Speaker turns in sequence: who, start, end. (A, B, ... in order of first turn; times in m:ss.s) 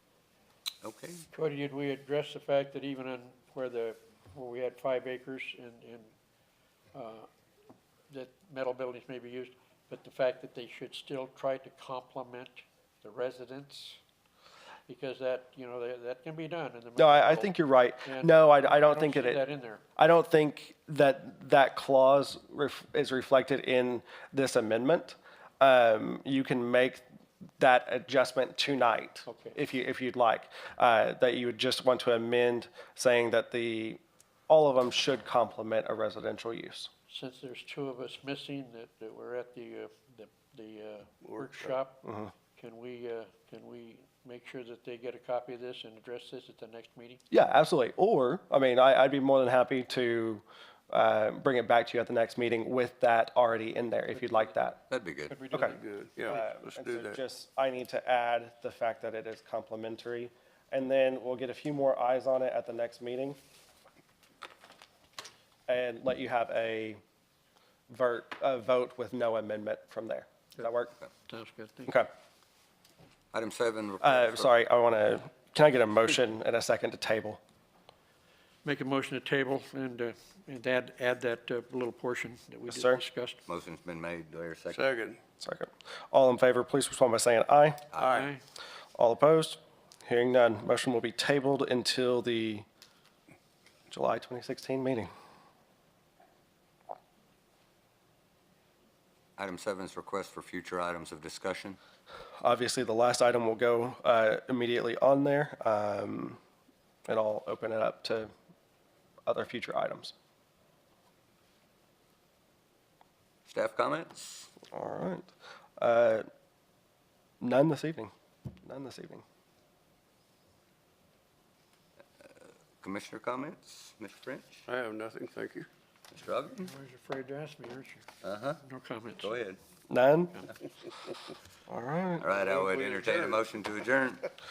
0:00.8-0:01.2 A
0:01.3-0:06.1 B
0:06.9-0:07.3 B
0:08.1-0:14.0 B
0:14.9-0:19.8 B
0:17.0-0:19.4 C
0:20.0-0:27.0 C
0:27.6-0:36.9 C
0:29.3-0:29.6 B
0:37.1-0:42.0 B
0:41.2-0:41.8 D
0:42.0-0:42.3 C
0:42.6-0:47.2 B
0:47.3-0:54.8 C
0:54.2-0:54.5 B
0:54.9-0:55.4 A
0:55.3-0:56.4 B
0:55.8-0:57.2 D
0:56.3-1:03.4 C
1:05.7-1:07.0 C
1:07.9-1:10.9 C
1:11.3-1:12.0 B
1:13.3-1:14.5 A
1:14.0-1:17.4 C
1:18.6-1:23.4 B
1:22.7-1:23.0 C
1:23.5-1:24.8 A
1:24.7-1:25.2 D
1:25.4-1:27.8 C
1:28.0-1:28.3 D
1:28.0-1:28.4 B
1:29.0-1:32.7 C
1:33.9-1:35.1 C
1:39.4-1:41.8 A
1:42.4-1:46.4 C
1:47.1-1:48.3 C
1:49.3-1:50.1 C
1:53.5-1:54.5 A
1:54.7-1:56.3 C
1:57.4-1:58.1 C
1:58.6-1:59.2 C
2:02.8-2:04.7 A
2:04.7-2:05.7 D
2:06.1-2:06.7 A
2:06.6-2:08.1 B
2:08.2-2:08.6 A
2:08.6-2:09.4 B
2:09.2-2:09.6 A
2:09.9-2:10.4 C
2:11.7-2:12.3 C
2:12.2-2:14.3 A
2:12.4-2:13.4 D